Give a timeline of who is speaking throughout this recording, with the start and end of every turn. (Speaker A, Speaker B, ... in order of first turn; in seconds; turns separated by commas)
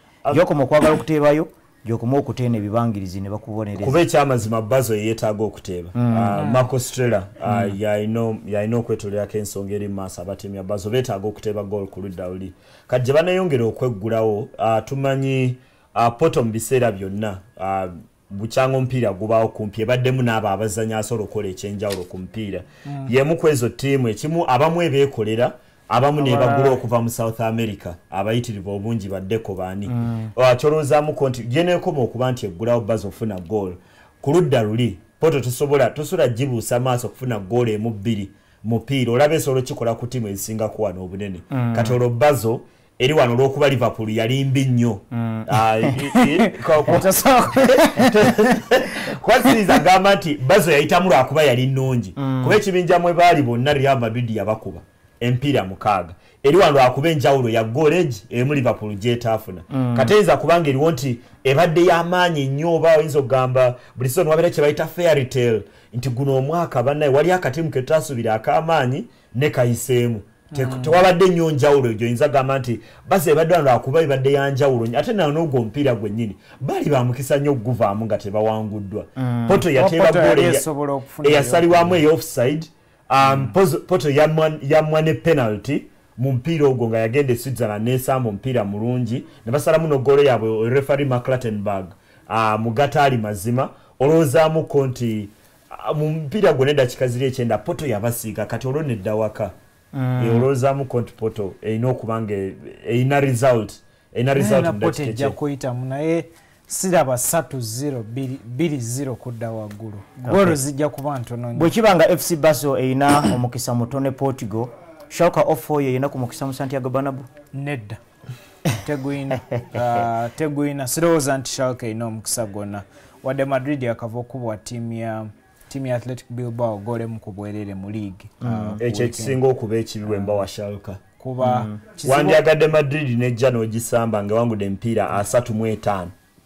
Speaker A: 0.3-4.0, Speaker B: 3.8-80.7, Speaker A: 6.0-6.4, Speaker C: 6.4-6.6, Speaker C: 22.9-23.1, Speaker C: 26.2-26.8, Speaker A: 29.9-30.3, Speaker A: 41.5-42.0, Speaker A: 45.1-46.1, Speaker C: 46.8-48.1, Speaker A: 47.8-48.2, Speaker A: 52.2-52.6, Speaker A: 59.7-60.1, Speaker C: 70.5-71.0, Speaker A: 79.2-79.6, Speaker C: 79.7-82.0, Speaker B: 81.2-99.5, Speaker A: 99.9-100.5, Speaker B: 100.2-105.4, Speaker C: 104.4-111.7, Speaker A: 110.3-110.6, Speaker A: 111.5-117.3, Speaker C: 117.5-118.0, Speaker C: 118.8-129.4, Speaker A: 128.4-128.8, Speaker B: 128.8-131.0, Speaker C: 130.1-130.4, Speaker C: 131.2-132.4, Speaker A: 131.4-131.8, Speaker B: 132.0-136.1